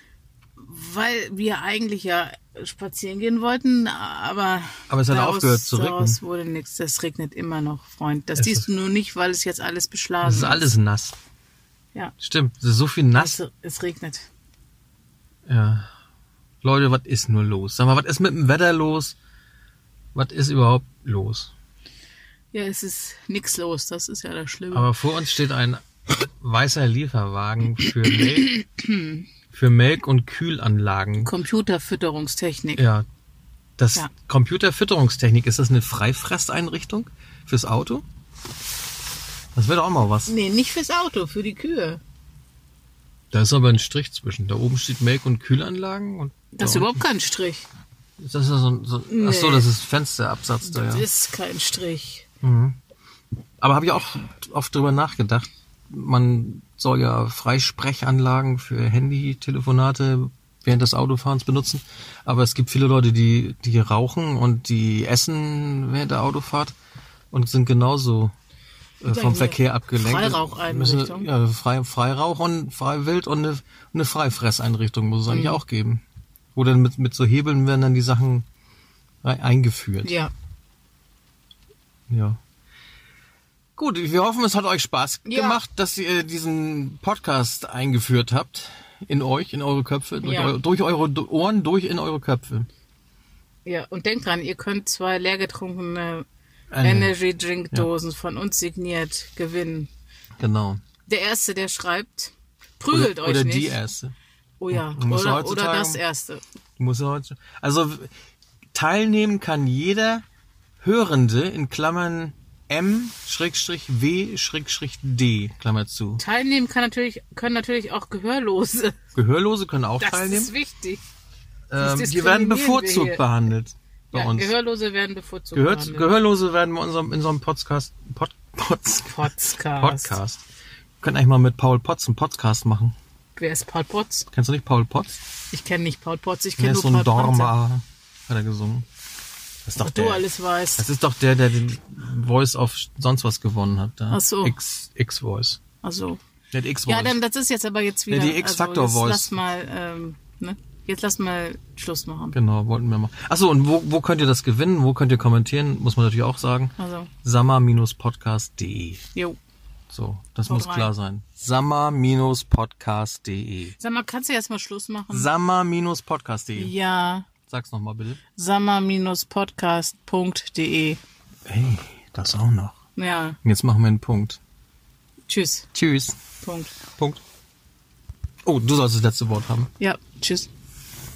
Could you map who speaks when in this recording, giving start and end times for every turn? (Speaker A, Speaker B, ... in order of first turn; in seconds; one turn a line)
Speaker A: 0.6-10.7
Speaker B: 4.9-6.2
Speaker B: 8.4-8.7
Speaker B: 10.2-11.2
Speaker B: 12.2-13.4
Speaker A: 13.1-14.3
Speaker B: 15.5-15.9
Speaker B: 16.6-19.2
Speaker B: 20.1-21.5
Speaker A: 22.5-24.9
Speaker B: 24.7-28.6
Speaker A: 28.2-29.2
Speaker B: 29.5-31.3
Speaker A: 31.2-32.8
Speaker B: 32.8-33.1
Speaker B: 33.8-38.0
Speaker B: 39.5-40.3
Speaker A: 40.3-42.0
Speaker B: 43.3-47.0
Speaker A: 46.5-47.7
Speaker B: 48.2-51.0
Speaker A: 49.1-49.7
Speaker A: 50.7-52.2
Speaker B: 52.4-52.8
Speaker B: 53.6-66.8
Speaker B: 67.3-68.3
Speaker B: 69.0-76.0
Speaker A: 69.1-71.3
Speaker A: 75.3-75.6
Speaker B: 76.5-78.5
Speaker B: 79.2-80.2
Speaker A: 80.0-80.3
Speaker B: 82.1-82.4
Speaker B: 83.8-92.7
Speaker A: 85.3-85.6
Speaker A: 90.2-90.5
Speaker A: 93.7-96.2
Speaker B: 96.7-97.1
Speaker A: 96.8-99.9
Speaker B: 100.4-100.8
Speaker A: 101.1-103.8
Speaker B: 102.9-104.1
Speaker A: 104.6-106.4
Speaker B: 104.7-106.0
Speaker B: 106.8-108.1
Speaker B: 108.7-110.2
Speaker B: 110.8-116.2
Speaker A: 116.2-119.0
Speaker B: 119.2-120.5
Speaker A: 120.0-121.0
Speaker B: 121.7-124.5
Speaker A: 121.8-123.2
Speaker A: 124.1-126.1
Speaker B: 125.5-130.4
Speaker A: 129.1-130.2
Speaker B: 131.0-132.9
Speaker A: 133.4-134.3
Speaker B: 134.3-135.2
Speaker A: 135.5-137.5
Speaker B: 136.6-138.9
Speaker B: 139.7-140.3
Speaker A: 139.8-140.8
Speaker B: 140.8-145.6
Speaker A: 144.1-144.6
Speaker A: 145.8-146.2
Speaker B: 146.5-147.2
Speaker A: 146.9-152.4
Speaker B: 148.1-149.3
Speaker B: 152.3-159.0
Speaker A: 156.8-157.1
Speaker B: 159.9-163.8
Speaker A: 160.5-160.9
Speaker A: 163.8-165.3
Speaker B: 165.1-166.7
Speaker A: 166.6-167.3
Speaker B: 167.5-168.2
Speaker A: 168.4-171.0
Speaker B: 171.5-172.8
Speaker A: 173.0-173.4
Speaker B: 173.4-174.4
Speaker A: 175.3-175.7
Speaker B: 175.7-176.2
Speaker A: 176.4-176.8
Speaker B: 178.4-179.7
Speaker A: 179.8-180.5